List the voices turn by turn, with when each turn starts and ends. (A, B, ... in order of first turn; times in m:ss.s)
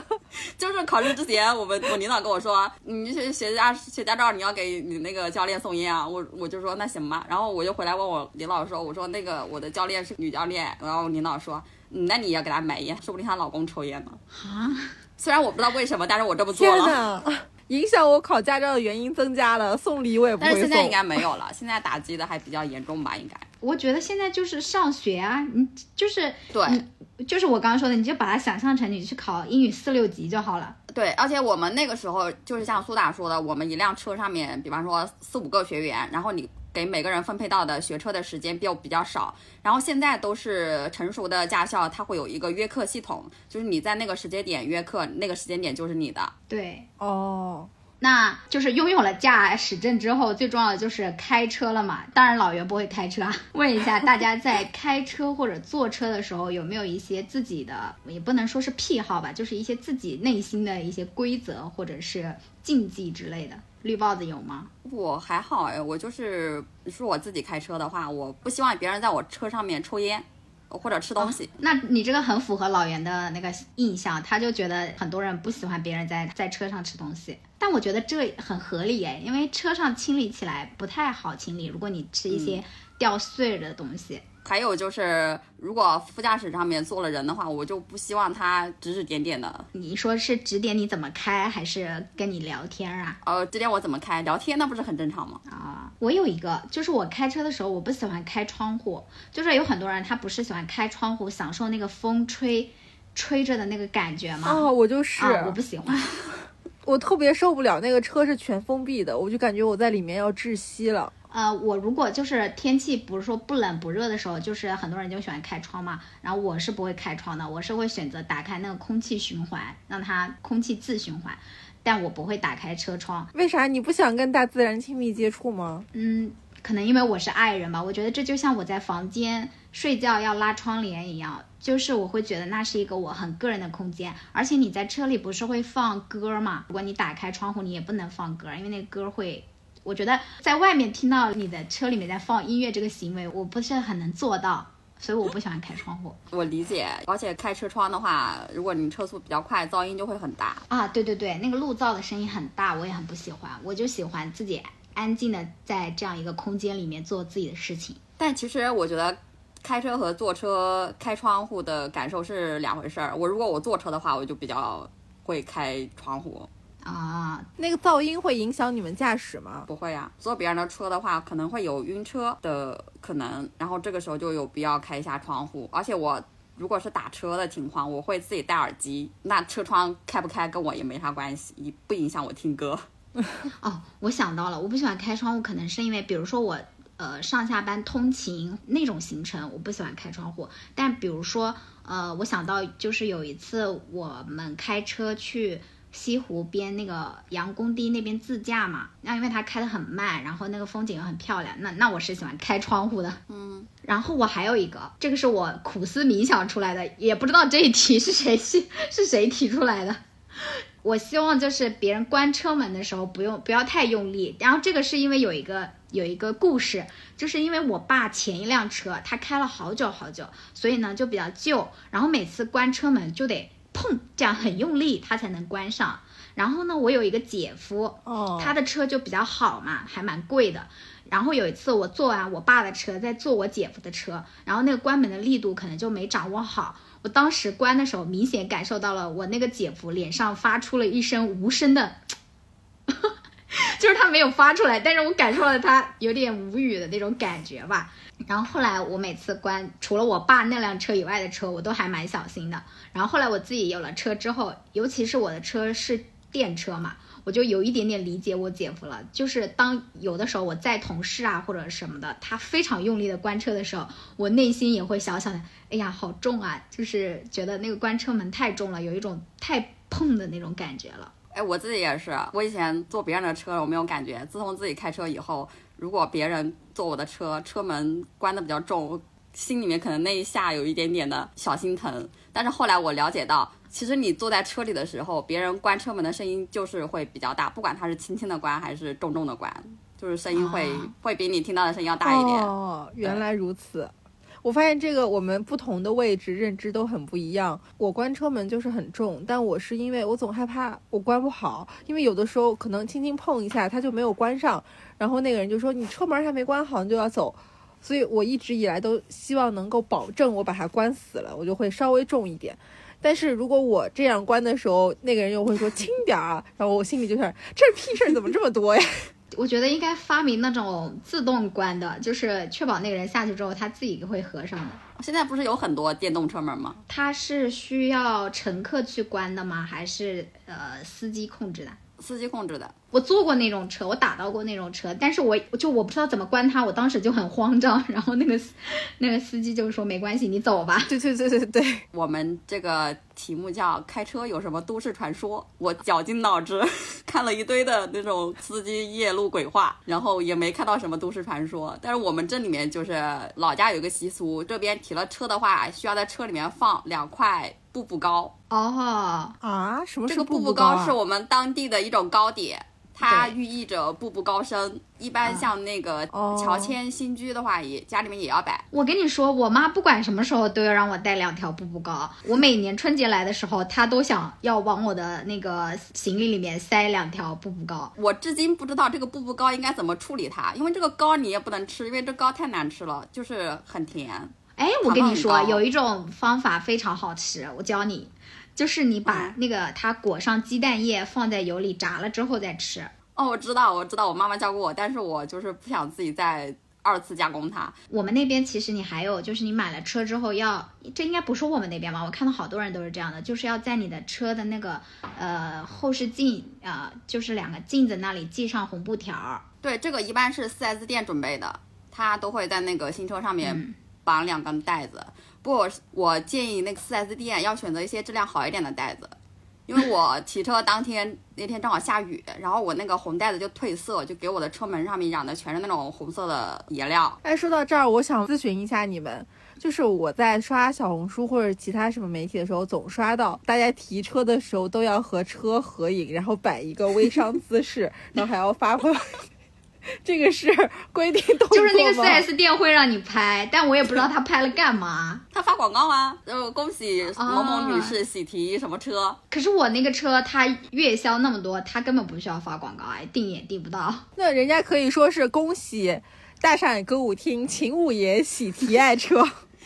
0:00.3-0:14.2 A
0:14.3-0:14.9 B
0:15.2-0:17.0 A
0:16.5-0:21.2 C
0:20.4-0:23.5 A
0:23.6-0:30.8 B
0:26.5-0:26.8 A
0:30.9-0:46.3 A
0:46.5-0:46.9 B
0:47.0-0:47.7 C
0:48.0-1:04.7 B
1:04.8-1:11.5 A
1:11.2-1:24.2 B
1:22.3-1:22.6 A
1:24.4-1:29.7 A
1:29.7-1:33.2 B
1:33.2-1:35.4 A
1:35.5-1:44.6 B
1:44.4-1:45.6 C
1:45.2-1:46.1 B
1:46.8-1:51.1 C
1:51.3-2:03.3 B
2:03.3-2:05.9 C
2:05.9-2:26.2 B
2:26.3-2:30.6 A
2:30.7-2:38.0 B
2:38.2-2:46.5 A
2:46.8-2:47.5 B
2:47.6-2:49.7 C
2:49.7-3:02.9 A
3:03.6-3:23.2 B
3:23.3-3:23.7 A
3:23.8-4:02.0 B
3:48.0-3:48.5 C
4:02.9-4:31.1 B
4:31.3-4:52.5 A
4:50.3-4:50.9 B
4:52.0-4:53.9 C
4:54.4-5:19.1 C
5:19.3-5:24.8 B
5:25.0-5:26.8 A
5:26.9-5:31.8 B
5:32.0-5:32.7 A
5:32.9-5:40.9 B
5:40.9-5:41.8 C
5:41.9-5:58.3 A
5:58.5-5:59.4 B
5:59.4-6:01.0 C
6:00.1-6:08.6 A
6:03.0-6:03.3 B
6:06.1-6:06.7 C
6:08.7-6:17.9 B
6:18.0-6:24.3 A
6:24.6-6:32.9 B
6:24.8-6:25.6 A
6:29.1-6:29.3 A
6:33.2-6:37.8 A
6:37.9-6:49.4 B
6:49.6-7:07.2 A
6:53.4-6:53.7 B
7:07.2-7:19.2 C
7:20.0-7:22.2 C
7:21.5-7:25.2 B
7:25.3-7:29.2 A
7:27.2-7:28.0 B
7:29.3-7:34.0 B
7:34.2-7:39.3 C